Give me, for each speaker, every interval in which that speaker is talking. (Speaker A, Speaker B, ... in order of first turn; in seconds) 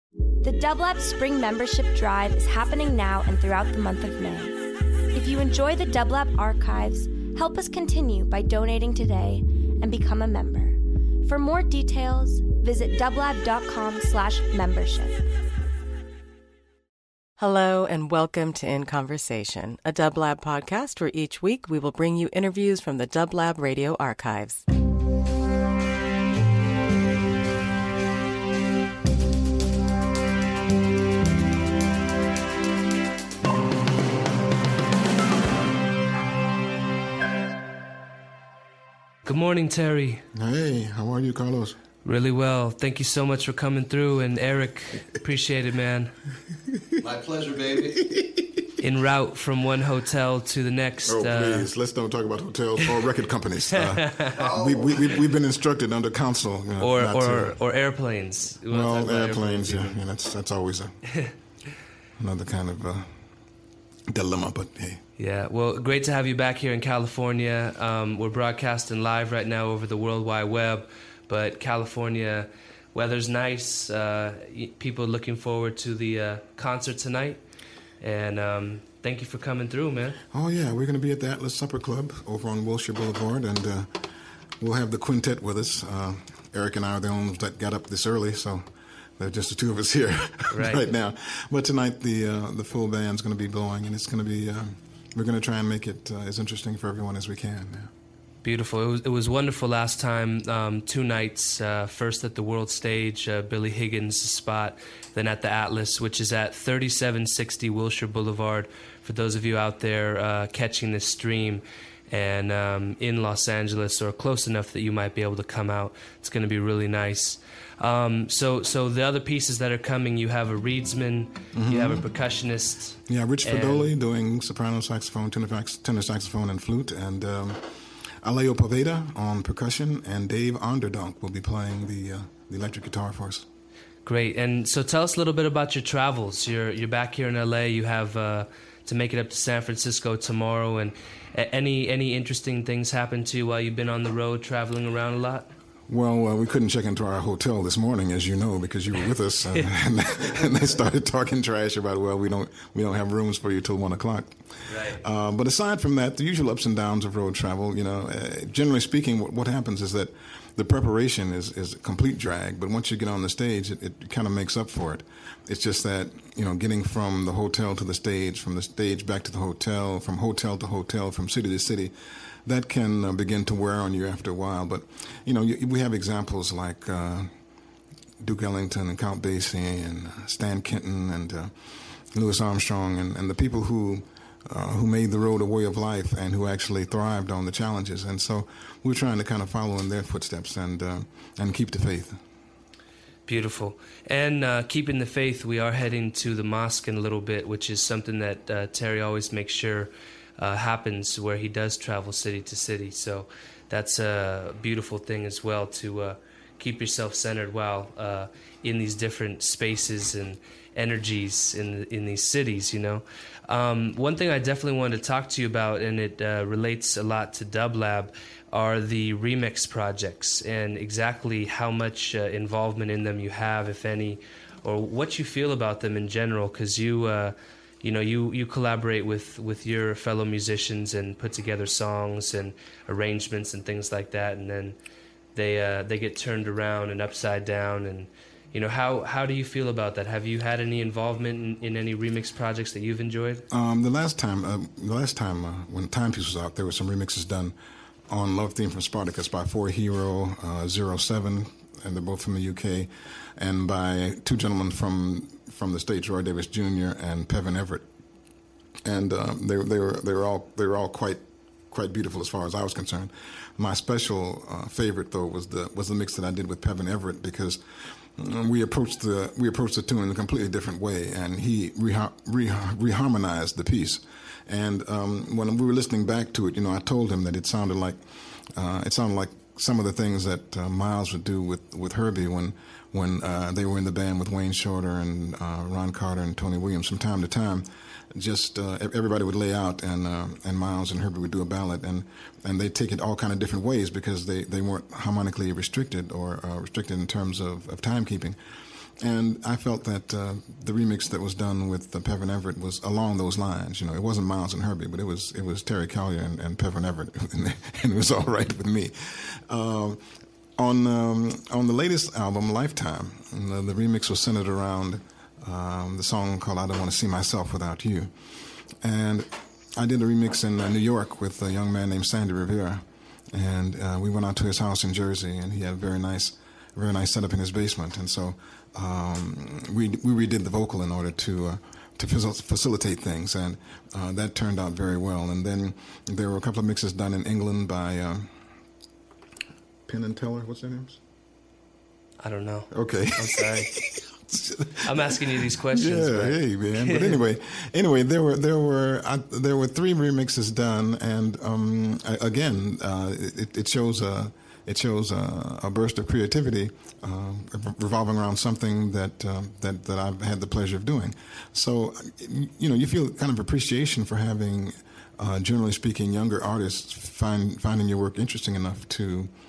Speaker A: 0.4-4.5, 5.1-15.2
Speaker B: 17.4-24.6
Speaker C: 39.2-40.2, 42.0-46.1, 48.8-51.7, 53.9-54.5, 56.8-60.0, 65.2-77.4, 78.0-80.2, 90.5-90.9, 98.4-123.9, 134.0-145.5, 154.7-155.0, 193.2-234.8, 235.3-243.4, 342.2-343.8, 344.8-347.2
Speaker D: 40.3-41.8, 47.0-48.6, 51.0-57.6, 58.7-61.1, 62.2-63.1, 64.1-65.0, 80.3-84.0, 84.6-88.6, 89.2-97.9, 121.5-122.1, 123.0-127.6, 128.2-133.4, 145.9-171.9, 172.4-177.3, 178.2-192.2, 243.5-247.5, 248.1-257.9, 258.8-267.6, 268.2-278.0, 278.5-298.4, 299.0-310.0, 310.6-318.1, 318.8-338.3, 339.9-341.0, 342.7-369.3